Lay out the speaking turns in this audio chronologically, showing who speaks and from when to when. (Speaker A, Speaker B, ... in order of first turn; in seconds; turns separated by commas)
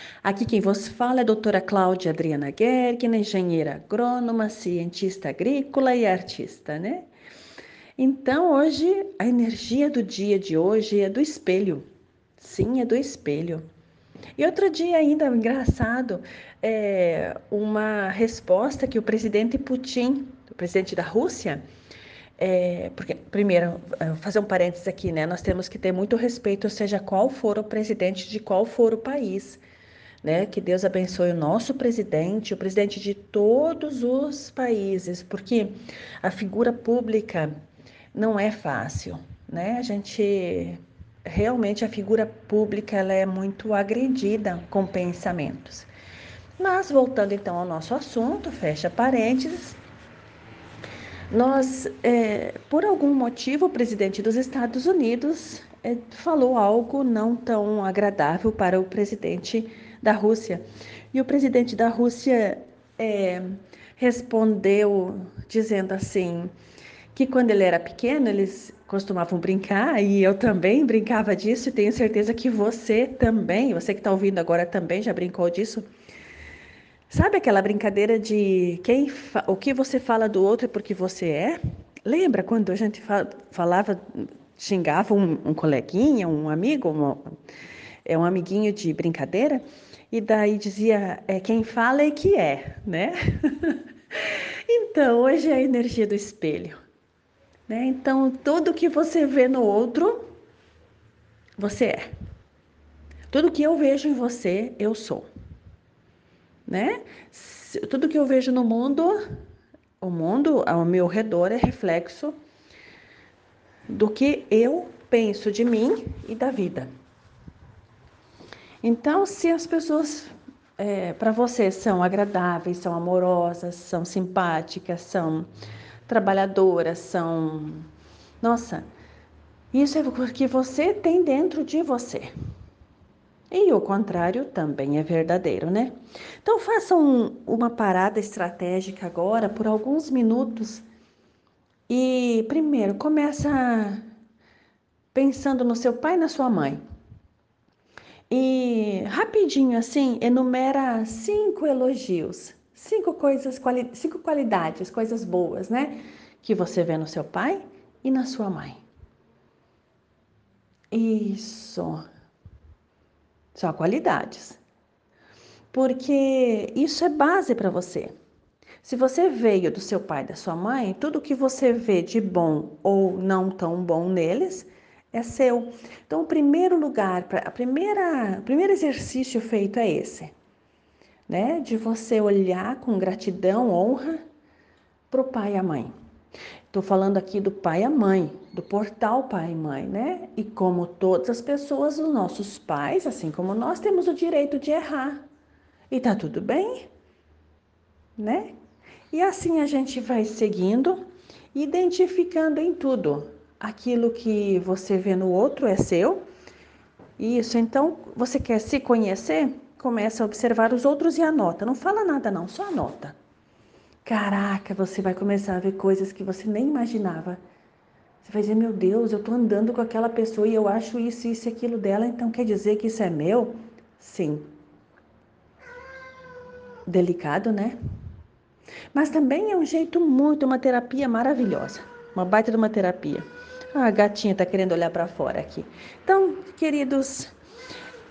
Speaker A: 0.2-7.1, Speaker A: 8.0-11.8, Speaker A: 12.4-13.6, Speaker A: 14.4-21.6, Speaker A: 22.4-29.6, Speaker A: 30.2-37.5, Speaker A: 38.1-45.9, Speaker A: 46.6-49.8, Speaker A: 51.3-66.5, Speaker A: 67.1-75.8, Speaker A: 77.1-87.3, Speaker A: 88.0-96.8, Speaker A: 97.7-100.3, Speaker A: 101.6-102.1, Speaker A: 103.3-105.3, Speaker A: 106.7-109.2, Speaker A: 110.0-112.3, Speaker A: 113.9-116.9, Speaker A: 118.8-125.5, Speaker A: 126.1-127.9, Speaker A: 128.4-128.8, Speaker A: 129.7-132.3, Speaker A: 133.5-140.8, Speaker A: 141.9-144.0, Speaker A: 145.1-146.8, Speaker A: 148.3-158.8, Speaker A: 160.9-162.0, Speaker A: 163.5-164.6, Speaker A: 165.7-168.1, Speaker A: 168.8-180.3, Speaker A: 181.3-184.2, Speaker A: 185.1-185.9, Speaker A: 186.7-195.2, Speaker A: 195.9-196.9, Speaker A: 198.2-198.5, Speaker A: 199.1-201.0, Speaker A: 201.5-206.2, Speaker A: 207.2-213.1, Speaker A: 214.0-217.4, Speaker A: 218.2-224.5, Speaker A: 226.9-227.8, Speaker A: 228.9-237.3